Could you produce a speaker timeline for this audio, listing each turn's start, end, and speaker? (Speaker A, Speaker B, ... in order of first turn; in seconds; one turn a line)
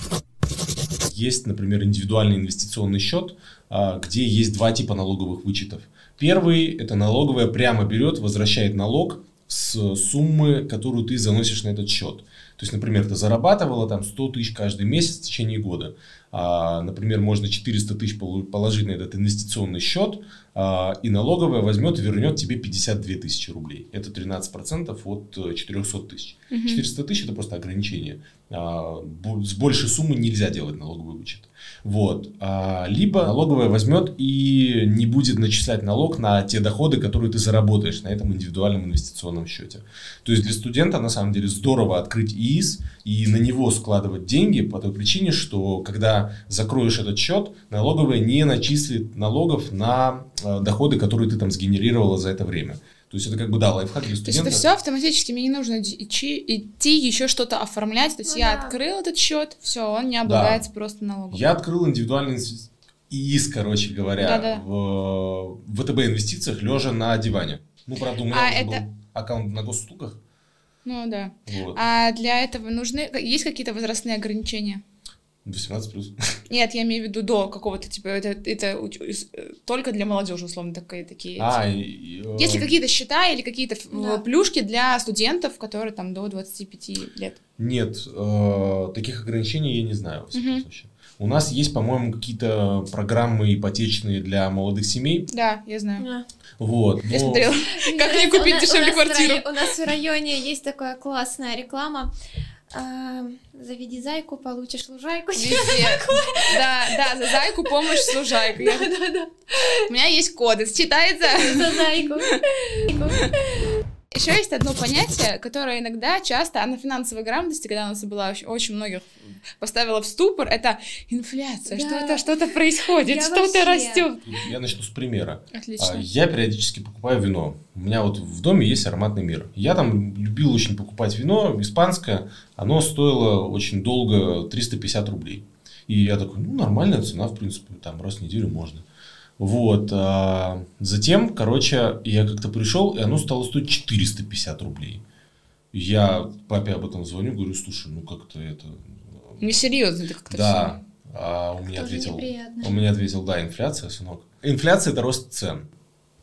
Speaker A: 1.1-54.6
Speaker B: 26.5-26.8
Speaker B: 54.2-61.4
Speaker C: 58.3-58.8
Speaker A: 60.2-60.6
Speaker A: 61.3-70.2
Speaker B: 64.2-64.6
Speaker B: 68.3-68.8
Speaker B: 70.8-74.8
Speaker A: 71.5-71.8
Speaker A: 75.4-76.4
Speaker B: 76.5-81.6
Speaker A: 81.4-82.7
Speaker B: 82.3-87.4
Speaker C: 83.9-84.2
Speaker A: 87.6-95.3
Speaker B: 90.3-90.6
Speaker B: 95.3-96.0
Speaker C: 96.0-96.2
Speaker A: 96.6-97.5
Speaker B: 97.1-99.5
Speaker C: 97.7-102.1
Speaker C: 102.7-109.9
Speaker B: 105.3-108.9
Speaker B: 109.9-112.4
Speaker C: 111.2-113.3
Speaker B: 112.9-113.3
Speaker B: 114.1-124.3
Speaker C: 121.7-124.1
Speaker A: 124.2-138.8
Speaker B: 125.5-126.0
Speaker A: 139.4-145.0
Speaker A: 145.7-149.4
Speaker B: 149.4-150.8
Speaker A: 150.3-155.7
Speaker C: 151.7-152.8